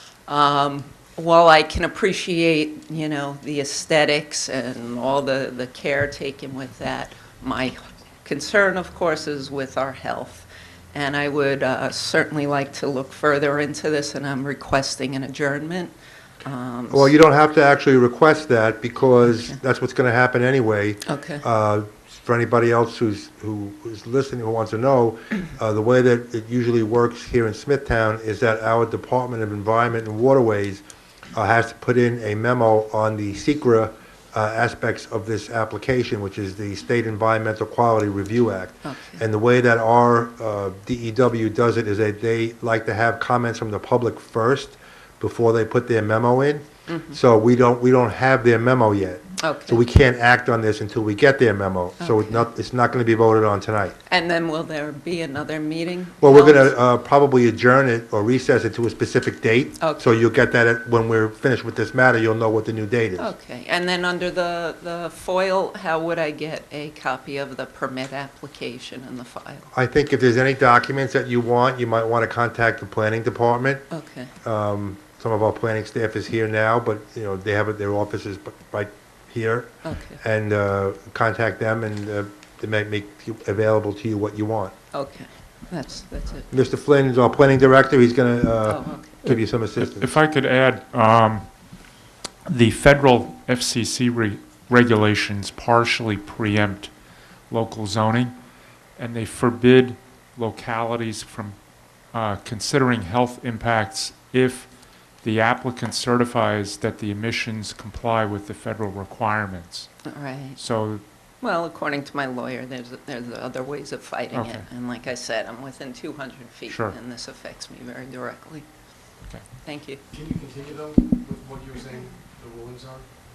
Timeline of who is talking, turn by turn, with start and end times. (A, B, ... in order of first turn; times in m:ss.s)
0:00.3-0:17.1 A
0:16.9-0:53.9 B
0:21.1-0:21.4 A
0:38.8-0:39.2 A
0:46.9-0:47.2 A
0:49.4-0:49.8 A
0:52.0-0:52.5 A
0:54.1-0:56.8 A
0:56.2-1:03.3 B
0:59.8-1:00.1 A
1:03.2-1:09.7 A
1:09.7-1:13.9 B
1:13.9-1:14.3 A
1:14.4-1:24.7 B
1:19.8-1:20.2 A
1:24.9-1:26.5 A
1:26.5-1:30.1 B
1:28.7-1:29.2 A
1:29.2-1:31.9 C
1:32.5-1:38.4 C
1:38.9-1:51.0 C
1:50.1-1:50.6 A
1:51.4-1:58.7 A
1:54.3-1:54.7 C
1:56.7-1:57.0 C
1:59.6-2:00.0 A
2:00.1-2:03.2 D